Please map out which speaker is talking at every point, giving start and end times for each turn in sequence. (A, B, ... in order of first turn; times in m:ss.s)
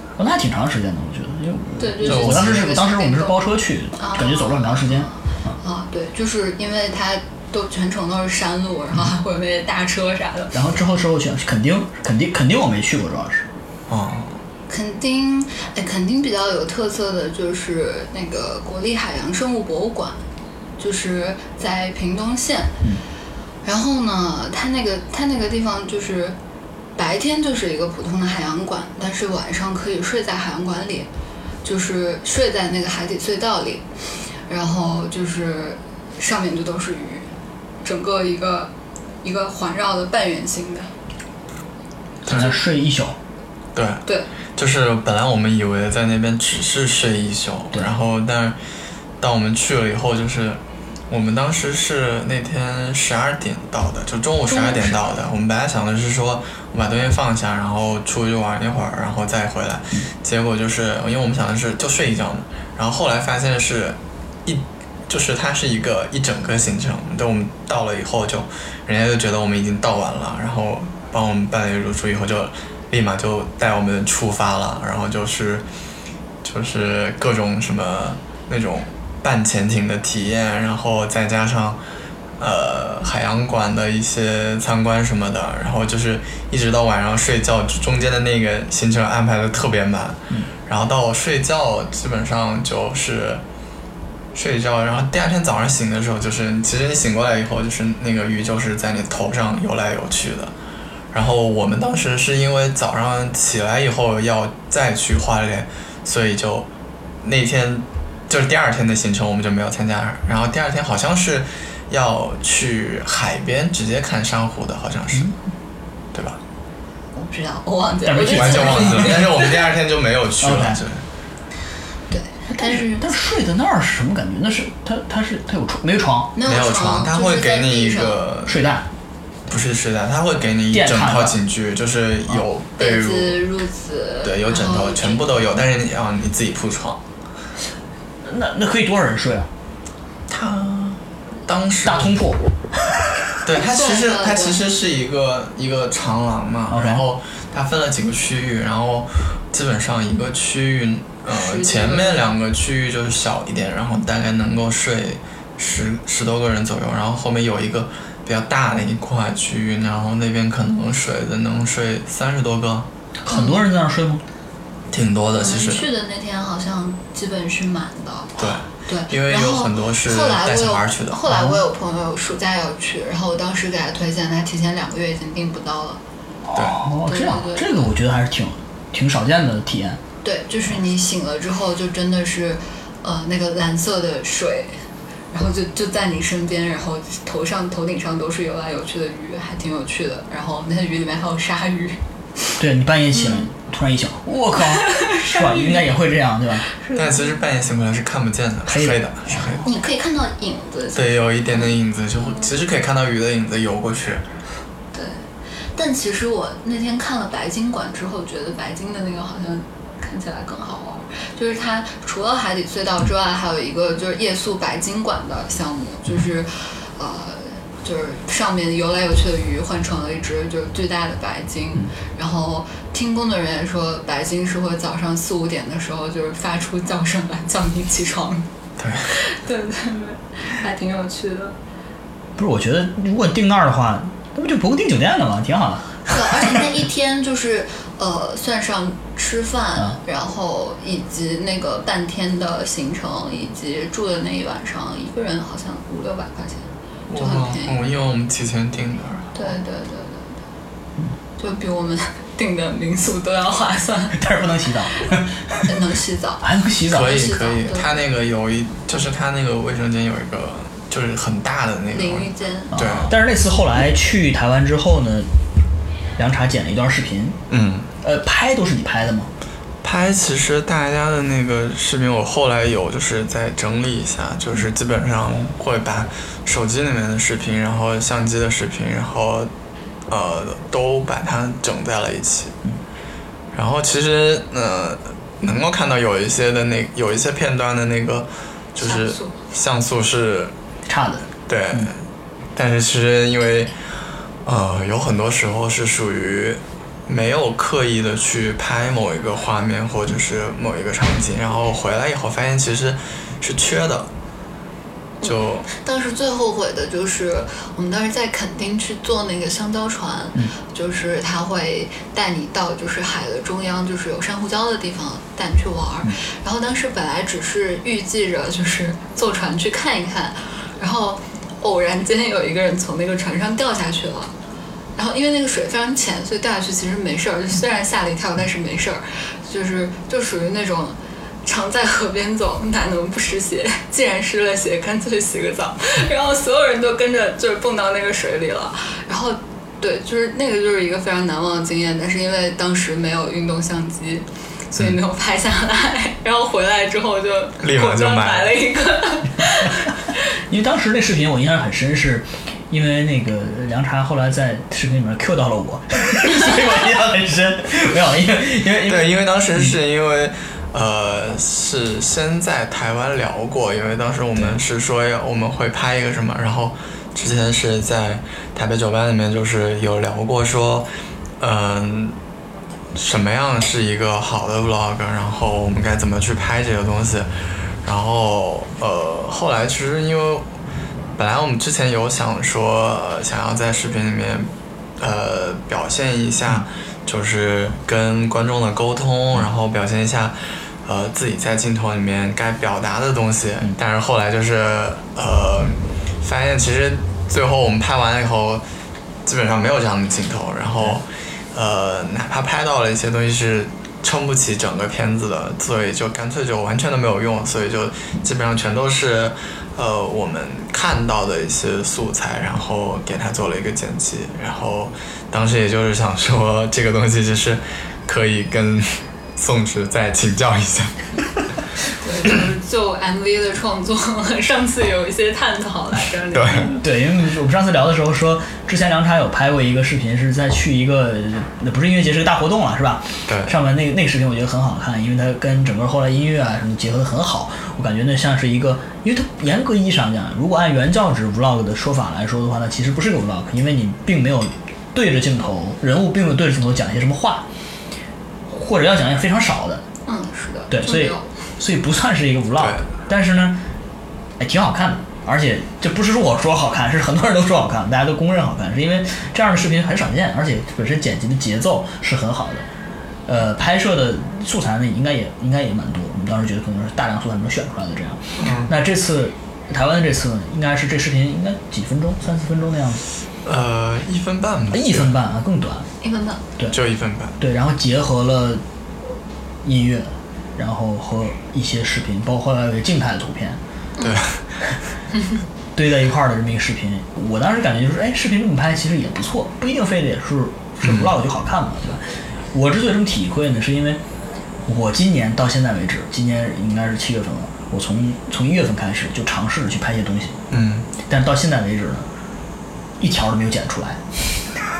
0:00.2-0:05.6 A
0:01.8-0:03.4 B
0:02.0-0:02.7 C
0:04.0-0:10.5 B
0:10.5-0:13.5 A
0:13.9-0:14.4 C
0:14.7-0:20.2 B
0:20.8-0:22.8 B
0:23.6-0:26.4 B
0:27.0-0:31.1 B
0:31.6-0:37.3 B
0:37.8-0:38.7 B
0:39.2-0:40.9 B
0:42.2-0:42.5 C
0:42.3-0:43.2 A
0:43.7-0:44.0 C
0:44.6-0:48.6 C
0:49.2-0:50.6 C
0:51.1-1:15.6 C
0:54.5-0:55.0 B
1:16.4-1:21.8 C
1:22.4-1:33.4 C
1:34.3-1:40.5 C
1:41.1-1:46.7 C
1:47.2-1:55.3 C
1:56.1-1:56.4 C
1:57.1-1:59.5 B
1:58.0-1:59.4 A
1:58.3-2:01.0 C
2:00.4-2:00.8 A
2:02.1-2:03.1 B
2:02.5-2:06.3 A
2:06.3-2:08.2 B
2:06.4-2:08.7 C
2:08.4-2:08.9 A
2:09.5-2:13.4 C
2:10.7-2:11.4 A
2:12.8-2:15.3 B
2:14.2-2:17.0 C
2:18.2-2:19.5 A
2:20.3-2:22.2 C
2:21.8-2:22.4 A
2:23.4-2:42.9 C
2:23.6-2:24.6 B
2:26.7-2:27.0 A
2:31.3-2:32.3 B
2:43.2-2:44.2 A
2:43.3-2:43.6 B
2:44.9-2:45.9 C
2:45.4-2:56.0 B
2:48.4-2:51.2 C
2:51.3-2:51.6 A
2:56.4-3:00.0 A
2:57.0-2:57.9 B
3:00.2-3:04.7 B
3:05.3-3:12.6 B
3:12.6-3:16.7 A
3:13.1-3:13.5 B
3:14.7-3:15.9 B
3:16.7-3:17.3 B
3:16.9-3:19.6 C
3:18.6-3:19.6 A
3:19.6-3:21.8 B
3:20.9-3:24.2 C
3:24.9-3:25.2 B
3:25.7-3:48.5 B
3:48.8-3:49.1 C
3:49.1-3:51.6 B
3:52.4-3:56.6 A
3:56.1-4:07.8 B
4:07.1-4:09.4 C
4:09.3-4:10.4 B
4:11.4-4:14.2 B
4:14.1-4:15.7 A
4:15.6-4:18.0 B
4:16.4-4:17.2 A
4:16.9-4:23.1 C
4:21.9-4:22.7 B
4:22.7-4:25.3 A
4:26.2-4:27.4 A
4:27.5-4:27.9 C
4:28.0-4:29.3 A
4:29.8-4:39.5 C
4:40.1-4:42.5 C
4:43.5-4:50.5 C
4:48.8-4:49.4 B
4:50.8-4:51.9 A
4:51.5-4:52.0 C
4:52.6-4:53.7 C
4:54.4-5:04.1 C
5:05.2-5:24.3 B
5:05.2-5:05.7 C
5:25.0-5:50.0 B
5:47.6-5:48.6 C
5:50.5-5:59.7 A
5:58.8-6:10.9 C
6:04.4-6:04.6 A
6:11.4-6:12.2 C
6:12.9-6:17.3 C
6:17.8-6:20.5 C
6:21.2-6:38.6 C
6:39.2-7:01.2 C
7:02.0-7:06.8 B
7:06.3-7:06.7 C
7:06.7-7:27.4 A
7:13.3-7:13.5 C
7:28.5-7:29.8 A
7:30.0-7:31.3 B
7:30.7-7:33.6 A
7:32.6-7:32.8 C
7:34.4-7:42.6 A
7:43.3-7:53.0 A
7:48.4-7:48.7 C
7:53.4-7:55.1 C
7:54.7-7:55.9 A
7:56.0-7:56.4 B
7:56.7-7:57.4 C
7:57.4-7:58.6 A
7:59.6-8:03.6 A
8:04.0-8:04.2 B
8:04.0-8:04.4 C
8:05.8-8:14.0 A
8:10.8-8:11.1 C
8:14.6-8:20.4 A
8:20.5-8:20.9 C
8:21.0-8:22.0 A
8:23.0-8:24.5 A